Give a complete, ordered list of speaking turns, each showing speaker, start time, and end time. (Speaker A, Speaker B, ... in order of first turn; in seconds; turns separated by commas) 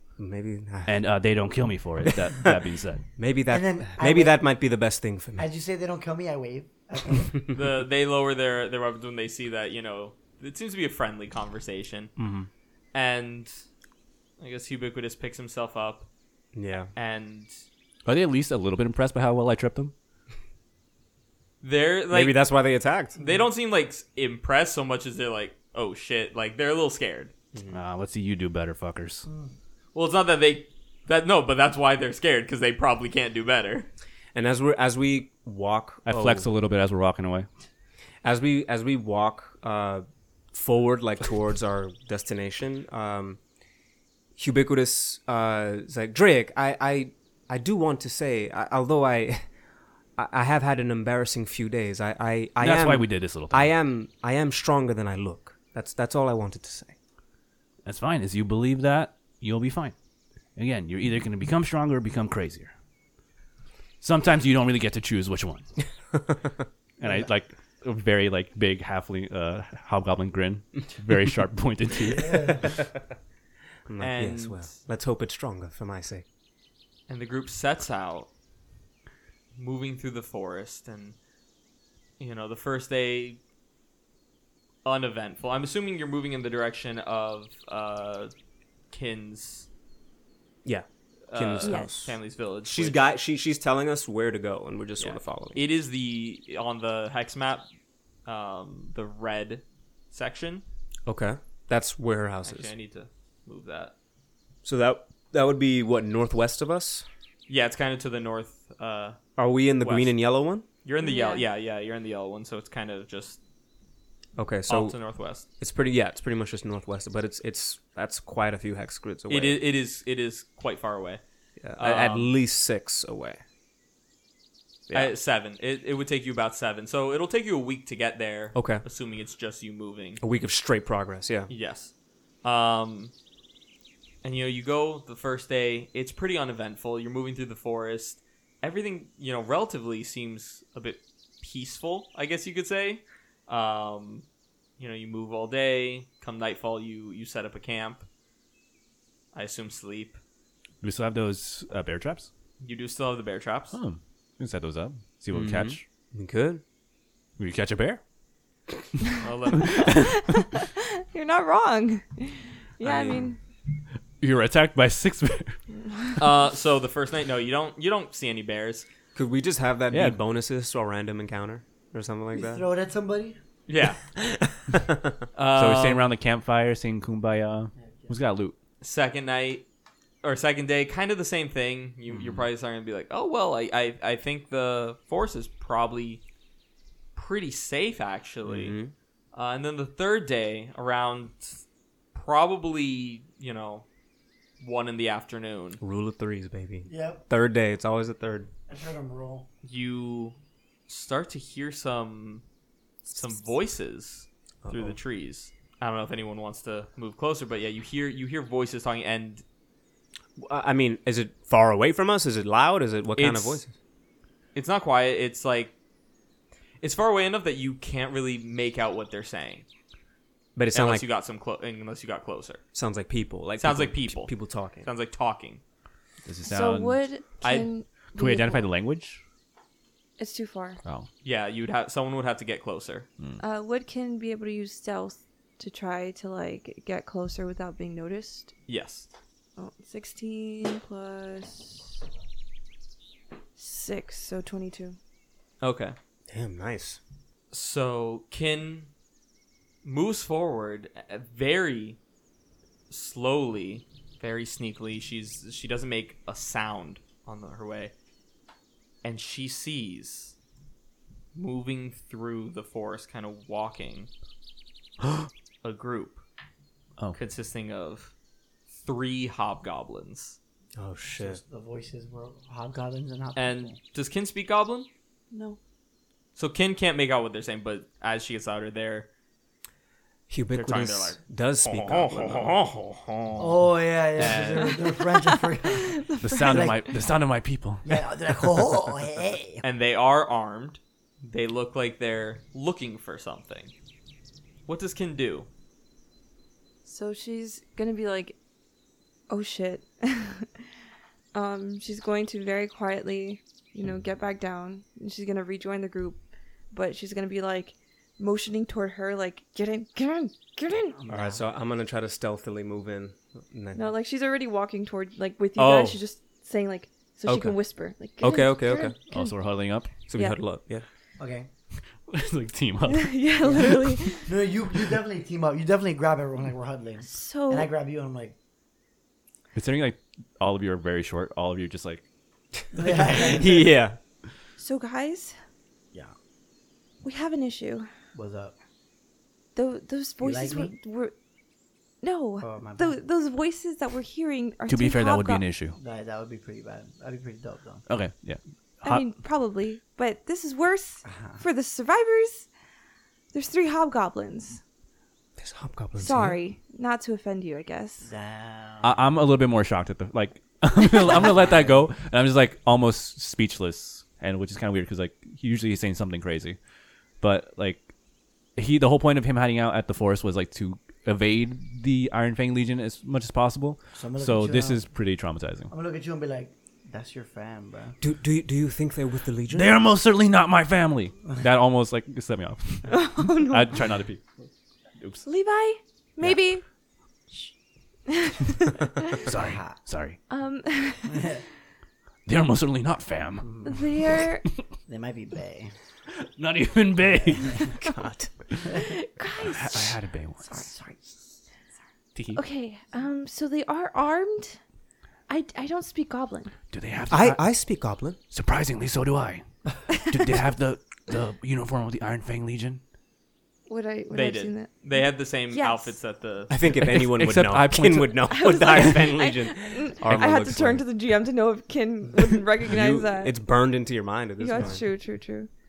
Speaker A: 0.2-1.0, Speaker B: 0.8-3.0, Speaker A: 3.2-5.5, Speaker C: 3.5-4.4, Speaker C: 5.4-7.4, Speaker D: 7.5-12.1, Speaker A: 12.2-12.5, Speaker D: 12.9-13.5, Speaker D: 14.4-16.1, Speaker A: 16.5-16.9, Speaker D: 16.9-17.5, Speaker B: 18.1-19.9, Speaker D: 21.6-22.4, Speaker A: 22.1-23.2, Speaker D: 23.2-27.3, Speaker A: 27.5-27.8, Speaker B: 27.7-29.2, Speaker C: 29.3-29.5, Speaker D: 29.9-33.9, Speaker A: 34.3-36.5, Speaker B: 36.0-37.5, Speaker A: 38.2-43.4, Speaker A: 44.4-49.4, Speaker A: 50.1-56.9, Speaker B: 52.6-53.7, Speaker B: 57.8-59.9, Speaker B: 60.5-62.7, Speaker B: 64.0-65.7, Speaker B: 67.0-72.7, Speaker C: 72.1-72.6, Speaker A: 73.9-76.2, Speaker D: 74.0-74.8, Speaker D: 77.1-78.3, Speaker D: 79.6-81.2, Speaker D: 82.2-83.4, Speaker D: 84.8-88.3, Speaker D: 88.9-89.7, Speaker A: 90.6-95.6, Speaker D: 91.3-93.0, Speaker E: 91.6-91.9, Speaker D: 95.0-97.7, Speaker D: 98.2-100.6, Speaker A: 101.0-102.7, Speaker D: 102.4-103.9, Speaker A: 104.6-107.0, Speaker D: 107.5-109.2, Speaker A: 109.4-110.6, Speaker D: 109.8-110.2, Speaker D: 110.8-113.4, Speaker E: 111.0-111.4, Speaker A: 114.3-115.0, Speaker D: 114.7-115.4, Speaker A: 115.6-119.6, Speaker D: 119.3-121.2, Speaker A: 121.6-123.4, Speaker D: 121.8-122.3, Speaker A: 124.9-125.1, Speaker D: 124.9-130.2, Speaker A: 128.5-128.8, Speaker A: 130.2-131.5, Speaker D: 131.5-131.9, Speaker D: 132.4-133.1, Speaker D: 134.2-144.2, Speaker D: 144.8-148.0, Speaker D: 149.3-150.2, Speaker B: 150.8-152.3, Speaker D: 152.6-153.8, Speaker B: 153.7-155.8, Speaker A: 155.3-156.6, Speaker B: 157.4-158.0, Speaker B: 159.1-160.3, Speaker D: 159.2-159.9, Speaker E: 159.8-163.4, Speaker A: 162.8-163.1, Speaker B: 164.2-165.6, Speaker D: 166.2-168.9, Speaker A: 169.1-172.6, Speaker B: 169.9-170.2, Speaker C: 172.3-173.4, Speaker D: 173.7-174.0, Speaker A: 174.2-175.0, Speaker D: 175.3-176.1, Speaker B: 175.5-178.5, Speaker C: 177.8-178.1, Speaker D: 178.8-179.6, Speaker D: 180.2-186.2, Speaker D: 187.1-188.8, Speaker A: 188.4-188.9, Speaker D: 189.3-191.6, Speaker D: 192.1-193.8, Speaker D: 194.6-195.8, Speaker A: 195.8-198.5, Speaker C: 196.9-197.2, Speaker C: 198.7-199.5, Speaker D: 199.6-200.4, Speaker D: 200.9-202.4, Speaker D: 203.1-209.4, Speaker A: 204.6-205.0, Speaker A: 210.4-213.7, Speaker D: 213.1-213.6, Speaker D: 214.5-215.7, Speaker D: 216.8-219.7, Speaker A: 220.6-221.0, Speaker D: 220.7-222.6, Speaker A: 222.7-224.9, Speaker D: 223.6-225.6, Speaker B: 226.2-227.0, Speaker E: 226.4-228.7, Speaker D: 227.4-227.7, Speaker B: 228.1-229.2, Speaker E: 230.2-230.8, Speaker D: 231.2-233.1, Speaker E: 233.4-238.5, Speaker D: 238.7-239.1, Speaker E: 239.6-242.0, Speaker E: 243.6-245.0, Speaker D: 245.6-245.9, Speaker A: 246.3-247.0, Speaker D: 247.5-248.9, Speaker D: 249.8-252.0, Speaker D: 252.9-257.9, Speaker D: 259.0-260.3, Speaker D: 261.3-264.1, Speaker D: 265.6-266.2, Speaker D: 267.1-268.1, Speaker D: 268.7-270.4, Speaker A: 270.8-271.4, Speaker C: 271.1-273.7, Speaker D: 273.4-274.9, Speaker E: 275.3-275.6, Speaker D: 276.4-279.1, Speaker A: 280.3-282.5, Speaker D: 280.5-283.6, Speaker C: 283.4-285.9, Speaker D: 284.2-284.8, Speaker E: 284.7-287.0, Speaker B: 286.2-287.8, Speaker C: 286.4-286.8, Speaker C: 287.8-289.6, Speaker D: 289.6-293.7, Speaker D: 294.7-295.5, Speaker E: 296.8-298.4, Speaker E: 299.3-300.5, Speaker E: 301.3-306.2, Speaker E: 306.7-311.0, Speaker C: 310.9-311.4, Speaker A: 311.1-313.9, Speaker E: 313.7-320.4, Speaker A: 315.6-315.9, Speaker D: 315.6-315.9, Speaker A: 317.2-317.6, Speaker A: 318.2-319.0, Speaker B: 319.1-319.9, Speaker A: 320.1-320.8, Speaker C: 321.2-321.5, Speaker B: 322.1-323.2, Speaker E: 322.9-324.3, Speaker C: 323.4-328.3, Speaker E: 327.0-327.7, Speaker B: 329.5-332.0, Speaker C: 332.7-333.6, Speaker A: 333.1-334.0, Speaker E: 334.6-335.4, Speaker E: 337.0-337.9, Speaker C: 338.1-338.5, Speaker E: 339.6-341.1, Speaker C: 340.2-340.8, Speaker E: 342.0-345.4, Speaker C: 342.4-343.0, Speaker B: 344.7-345.8, Speaker C: 345.8-347.8, Speaker B: 347.9-349.1, Speaker E: 348.8-352.5, Speaker C: 351.0-351.4, Speaker E: 353.3-354.6, Speaker A: 355.4-356.4, Speaker E: 356.0-358.1, Speaker C: 358.0-359.0, Speaker B: 358.8-366.6, Speaker E: 360.8-361.4, Speaker B: 367.2-367.9, Speaker B: 368.6-375.7, Speaker C: 373.9-374.8, Speaker C: 375.7-377.9, Speaker A: 378.0-379.8, Speaker B: 379.5-384.2, Speaker E: 382.9-383.7, Speaker B: 385.0-385.3, Speaker E: 385.2-386.6, Speaker E: 388.1-389.1, Speaker B: 389.2-390.2, Speaker C: 389.3-389.8, Speaker E: 390.3-391.4, Speaker C: 391.1-391.4, Speaker B: 392.2-393.8, Speaker C: 393.4-393.7, Speaker E: 393.6-394.4, Speaker C: 394.9-395.7, Speaker B: 396.4-397.8, Speaker A: 397.7-398.3, Speaker E: 398.7-399.9, Speaker B: 399.4-400.5, Speaker C: 400.5-401.3, Speaker B: 402.1-402.4, Speaker E: 402.3-404.6, Speaker E: 405.3-406.5, Speaker B: 406.7-407.4, Speaker A: 407.1-408.2, Speaker B: 408.3-412.8, Speaker E: 413.7-415.9, Speaker D: 414.1-416.6, Speaker A: 416.5-420.8, Speaker B: 416.7-418.9, Speaker E: 418.3-423.4, Speaker A: 422.7-424.8, Speaker E: 424.4-425.5